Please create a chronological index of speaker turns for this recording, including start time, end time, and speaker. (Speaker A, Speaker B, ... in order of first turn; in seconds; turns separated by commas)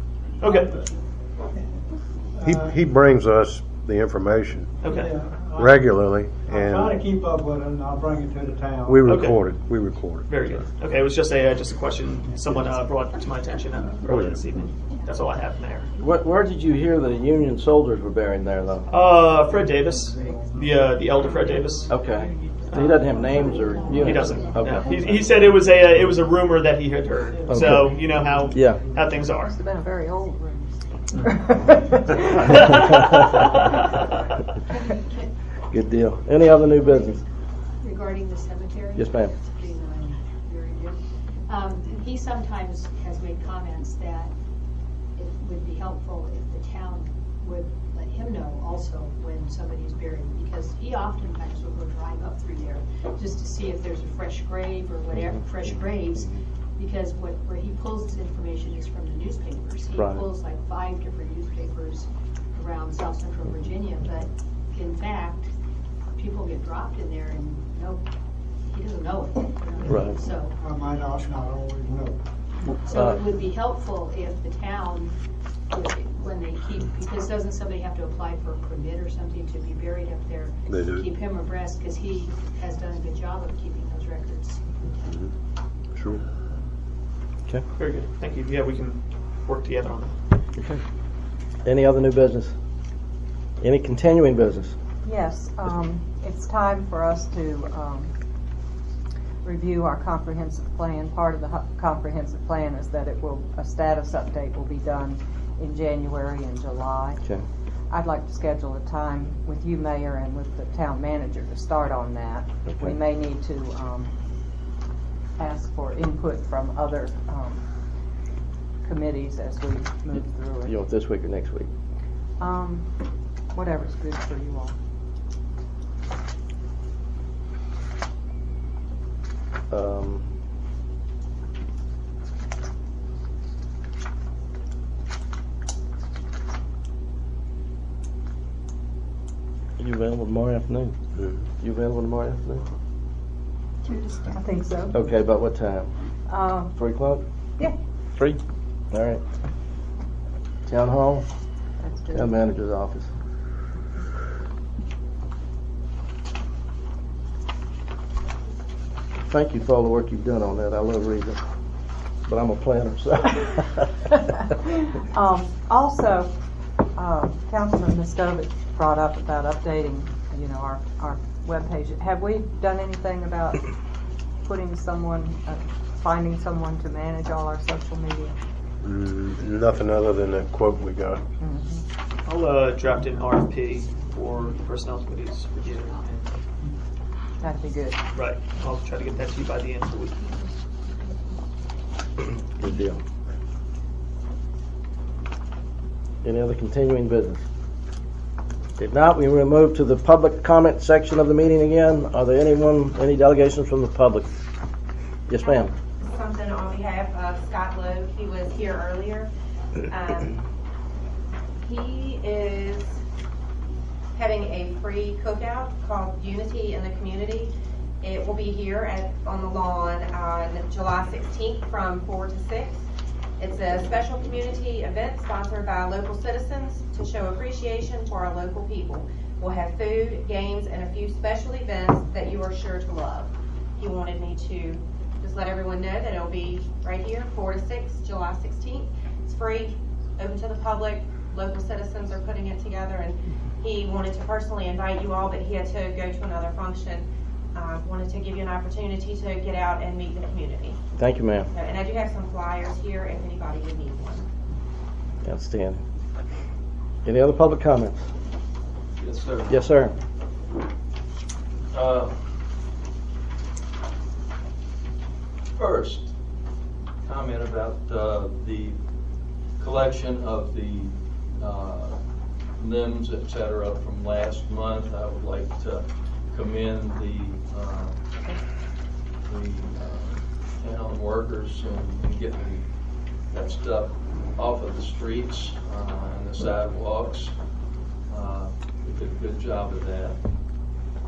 Speaker A: 0.4-0.8, Speaker B: 2.4-2.8, Speaker C: 2.4-4.7, Speaker A: 4.8-5.2, Speaker B: 4.9-5.9, Speaker C: 5.6-6.8, Speaker B: 6.4-9.1, Speaker C: 8.9-10.3, Speaker A: 9.0-9.5, Speaker A: 10.3-15.9, Speaker D: 16.0-18.9, Speaker A: 18.9-21.9, Speaker D: 21.9-24.9, Speaker A: 22.7-23.1, Speaker E: 23.6-24.5, Speaker A: 24.0-29.5, Speaker B: 27.3-27.8, Speaker D: 27.5-27.8, Speaker B: 28.3-29.1, Speaker D: 28.5-28.8, Speaker F: 29.4-33.0, Speaker A: 32.5-33.8, Speaker D: 35.7-37.2, Speaker E: 36.8-44.3, Speaker D: 39.0-39.3, Speaker E: 45.1-65.5, Speaker D: 60.0-60.2, Speaker E: 66.1-68.0, Speaker E: 68.7-70.6, Speaker D: 69.9-70.1, Speaker B: 70.6-72.2, Speaker E: 72.8-75.2, Speaker E: 75.7-84.7, Speaker C: 80.7-81.0, Speaker C: 86.0-86.2, Speaker A: 87.8-90.1, Speaker D: 91.6-92.5, Speaker D: 93.6-94.7, Speaker F: 95.0-98.1, Speaker F: 99.4-107.2, Speaker F: 107.9-114.1, Speaker D: 112.7-112.9, Speaker F: 115.4-117.6, Speaker F: 118.8-120.8, Speaker D: 120.6-121.7, Speaker F: 122.4-122.9, Speaker F: 123.5-124.7, Speaker D: 129.7-130.3, Speaker D: 139.8-140.9, Speaker D: 141.6-142.6, Speaker E: 143.8-144.2, Speaker F: 144.1-145.0, Speaker D: 144.9-145.9, Speaker F: 146.3-146.7, Speaker D: 146.8-147.2, Speaker D: 148.9-149.2, Speaker D: 150.7-151.2, Speaker F: 151.8-152.3, Speaker D: 152.1-153.1, Speaker D: 159.3-161.4, Speaker D: 162.3-163.9, Speaker F: 164.9-166.3, Speaker F: 166.9-173.7, Speaker F: 174.4-178.3, Speaker C: 178.8-181.2, Speaker F: 181.4-181.8, Speaker A: 182.2-186.2, Speaker F: 187.4-188.0, Speaker A: 188.1-190.3, Speaker D: 192.6-193.0, Speaker D: 196.2-197.4, Speaker D: 198.8-204.3, Speaker D: 205.3-205.7, Speaker G: 205.4-209.3, Speaker G: 209.8-210.4, Speaker G: 211.6-213.0, Speaker G: 214.1-222.8, Speaker G: 223.4-250.8, Speaker D: 251.0-251.5, Speaker G: 251.5-254.2, Speaker D: 255.2-255.8, Speaker D: 257.0-258.0, Speaker H: 259.0-259.6, Speaker D: 259.5-259.9, Speaker H: 261.7-262.1, Speaker H: 265.6-266.1, Speaker H: 267.0-268.8, Speaker H: 269.6-272.0, Speaker H: 272.6-277.9, Speaker H: 279.2-282.6, Speaker H: 283.3-287.3, Speaker H: 288.1-290.2